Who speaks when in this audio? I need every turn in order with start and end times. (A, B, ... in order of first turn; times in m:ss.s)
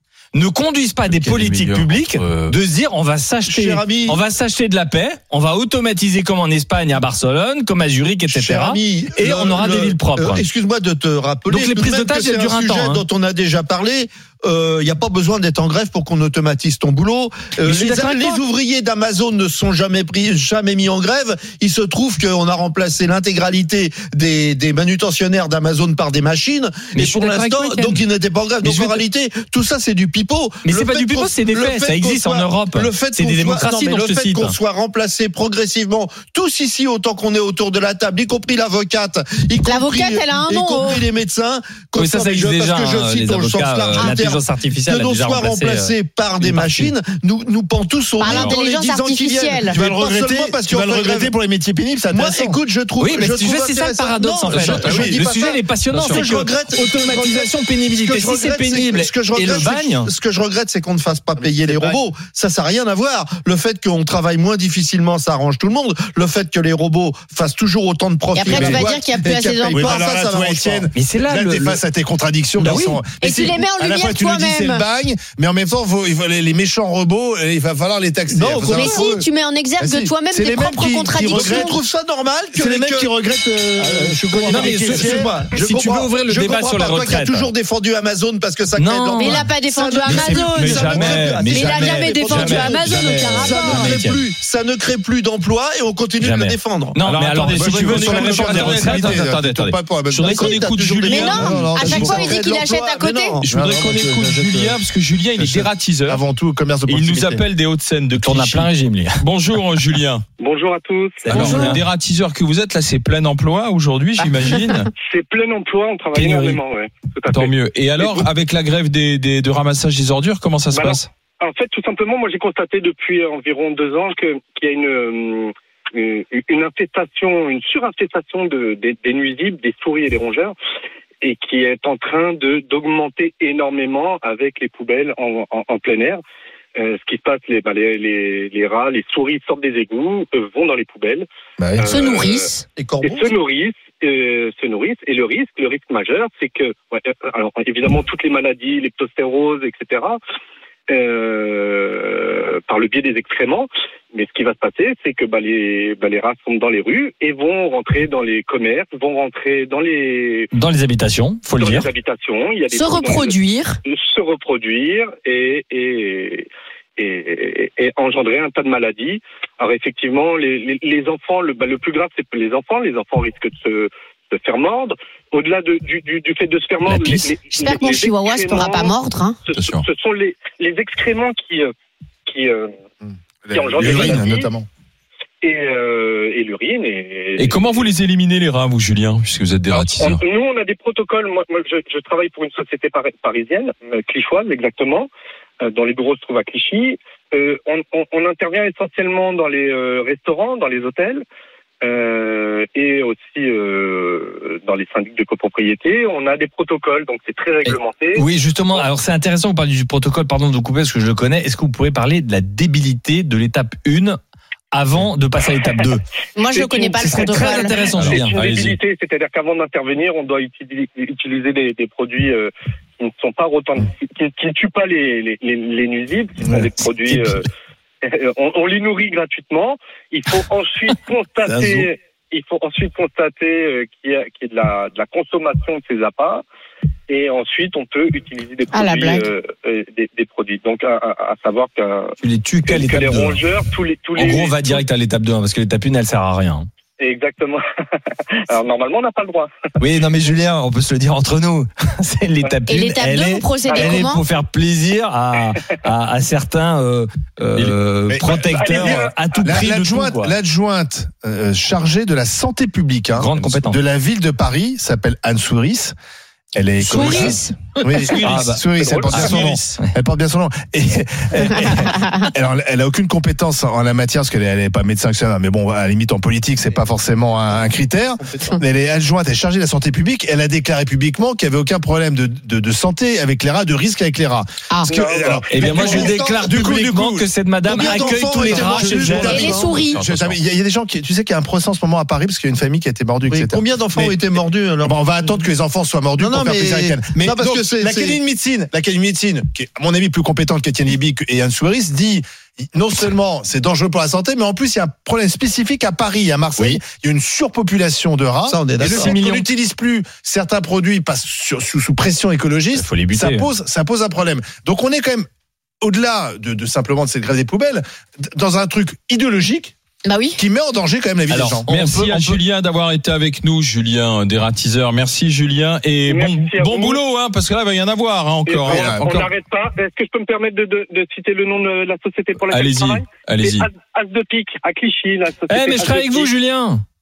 0:00.3-0:10.4 A
0:01.1-0:02.5 B
0:03.5-0:04.2 C
0:08.3-0:51.3 C
0:11.5-0:13.0 A
0:17.6-0:18.4 A
0:26.9-0:28.0 A
0:28.6-0:29.0 A
0:30.6-0:34.6 A
0:39.6-0:41.1 D
0:42.0-0:46.9 A
0:48.2-0:49.8 D
0:49.7-0:52.6 E
0:52.1-1:10.9 C
0:53.0-1:00.1 A
0:54.5-0:55.1 B
0:54.7-0:55.2 E
1:01.7-1:02.0 A
1:08.3-1:10.0 D
1:08.5-1:08.9 E
1:09.7-1:19.3 E
1:10.9-1:11.8 A
1:12.6-1:13.0 C
1:12.6-1:13.0 A
1:13.2-1:14.8 D
1:18.3-1:19.0 C
1:18.7-1:21.8 D
1:19.8-1:21.8 E
1:21.3-1:23.1 C
1:22.5-1:25.3 E
1:23.8-1:37.0 C
1:24.5-1:27.5 A
1:28.8-1:29.5 A
1:29.2-1:33.9 D
1:30.1-1:31.4 B
1:30.6-1:34.2 A
1:32.4-1:33.1 B
1:36.2-1:39.2 A
1:37.0-1:41.6 B
1:37.5-1:40.5 E
1:40.3-1:43.6 C
1:41.1-1:43.4 D
1:41.3-1:42.5 E
1:43.4-1:46.2 B
1:43.5-1:44.8 E
1:45.4-1:47.4 E
1:46.9-1:50.2 B
1:48.2-1:49.2 A
1:50.4-1:51.8 F
1:51.2-1:51.8 A
1:51.3-1:54.9 B
1:51.4-1:51.7 D
1:55.0-1:58.3 F
1:56.2-1:56.5 A
1:57.3-2:01.1 B
2:00.7-2:10.5 F
2:11.2-2:16.2 F
2:16.8-2:21.3 F
2:21.6-2:21.9 E
2:21.8-2:22.5 F
2:21.9-2:22.6 D
2:22.8-2:23.3 C
2:23.0-2:30.2 F
2:30.9-2:40.5 F
2:40.5-2:41.9 A
2:41.6-2:46.5 F
2:42.7-2:43.8 D
2:47.0-2:58.9 F
2:56.9-2:57.4 A
2:57.5-2:59.4 D
2:59.5-3:01.7 F
2:59.5-2:59.8 B
3:02.3-3:02.7 F
3:03.0-3:04.7 E
3:03.5-3:04.5 F
3:03.8-3:04.2 B
3:05.4-3:08.0 F
3:07.4-3:10.2 B
3:10.0-3:15.1 F
3:15.6-3:21.2 F
3:21.8-3:28.8 F
3:27.6-3:34.2 A
3:34.7-3:36.0 A
3:36.4-3:37.8 D
3:36.5-3:47.5 F
3:37.0-3:38.4 A
3:37.5-3:38.8 B
3:48.0-3:56.4 F
3:57.1-4:02.1 F
3:58.7-3:59.3 D
4:02.2-4:03.4 A
4:02.6-4:04.8 F
4:04.2-4:06.7 A
4:07.0-4:09.5 F
4:09.8-4:20.4 A
4:12.7-4:14.2 D
4:13.7-4:14.0 F
4:18.1-4:26.0 E
4:18.5-4:19.4 F
4:23.1-4:23.8 A
4:26.6-4:54.2 E
4:26.9-4:27.5 D
4:28.0-4:29.3 F
4:28.2-4:28.6 A
4:29.1-4:29.8 A
4:37.5-4:38.6 C
4:44.9-4:46.2 F
4:45.5-4:49.6 A
4:45.7-4:46.8 C
4:47.7-4:49.8 C
4:49.2-4:50.0 D
4:49.9-4:50.4 B
4:53.3-4:55.0 C
4:54.8-5:15.3 E
4:56.2-4:58.2 C
5:08.5-5:09.2 C
5:08.9-5:09.5 A
5:12.7-5:13.5 A
5:15.8-5:19.7 E
5:20.0-5:20.4 D
5:20.4-5:22.1 E
5:21.4-5:29.3 B
5:21.6-5:22.4 A
5:26.1-5:27.0 F
5:28.4-5:36.3 F
5:28.6-5:29.1 E
5:32.4-5:33.7 B
5:35.5-5:36.8 A